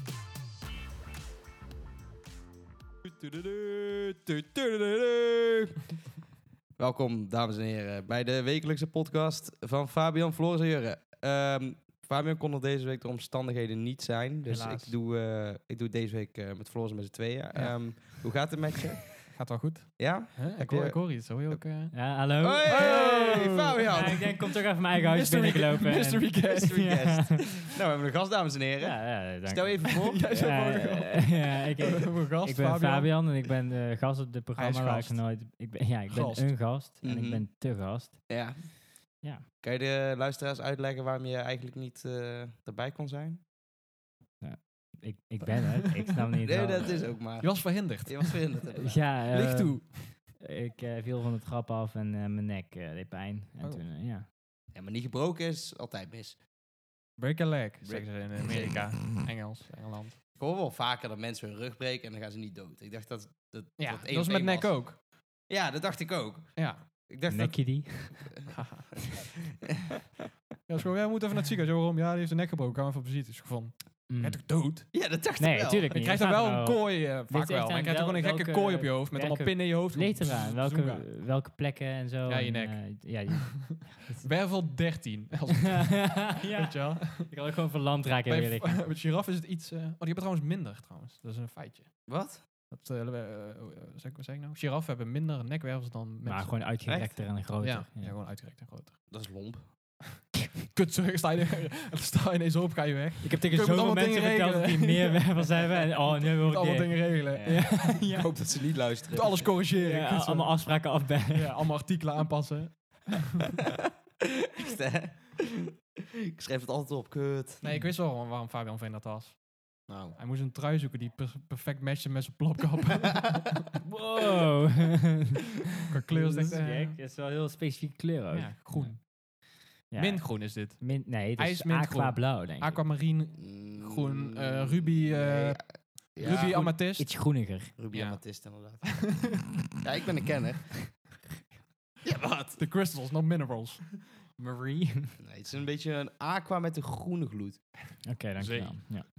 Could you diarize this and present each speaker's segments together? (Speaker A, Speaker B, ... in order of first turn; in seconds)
Speaker A: 3.0-5.8, 6.8-19.4, 20.0-21.6, 22.4-24.4, 25.2-25.5, 26.5-30.5, 37.0-37.6, 38.3-38.8, 39.6-43.4, 46.4-49.1, 54.7-56.4, 57.8-58.9, 60.4-64.8, 65.4-68.3, 74.9-76.0, 92.0-92.4, 96.8-97.2, 99.1-100.0, 107.8-109.5, 114.5-115.7, 116.3-117.6, 119.9-120.2, 133.3-136.7, 137.8-141.2, 142.0-142.6, 145.2-147.6
Speaker B: 14.4-14.9, 17.5-18.1, 19.3-24.4, 24.9-26.9, 30.0-33.2, 34.5-35.3, 36.1-36.6, 47.4-48.5, 49.3-50.1, 57.2-60.2, 63.8-65.0, 66.5-66.9, 68.5-68.9, 70.7-74.9, 75.9-81.1, 82.2-87.3, 88.2-96.7, 97.6-99.1, 100.7-108.0, 109.1-113.4, 117.6-123.6, 125.9-127.0, 128.3-129.3, 129.9-137.3, 137.9-139.4, 142.6-143.9, 148.4-148.7
Speaker C: 21.9-23.1, 23.9-27.4, 28.8-38.7, 44.4-47.1, 48.7-54.3, 67.3-68.5, 74.1-74.5, 75.4-84.4, 85.8-88.9, 96.2-98.2, 103.2-108.4, 109.7-111.6, 123.8-125.5, 126.1-129.3, 129.9-132.8, 136.2-137.7, 144.3-145.2, 148.0-149.1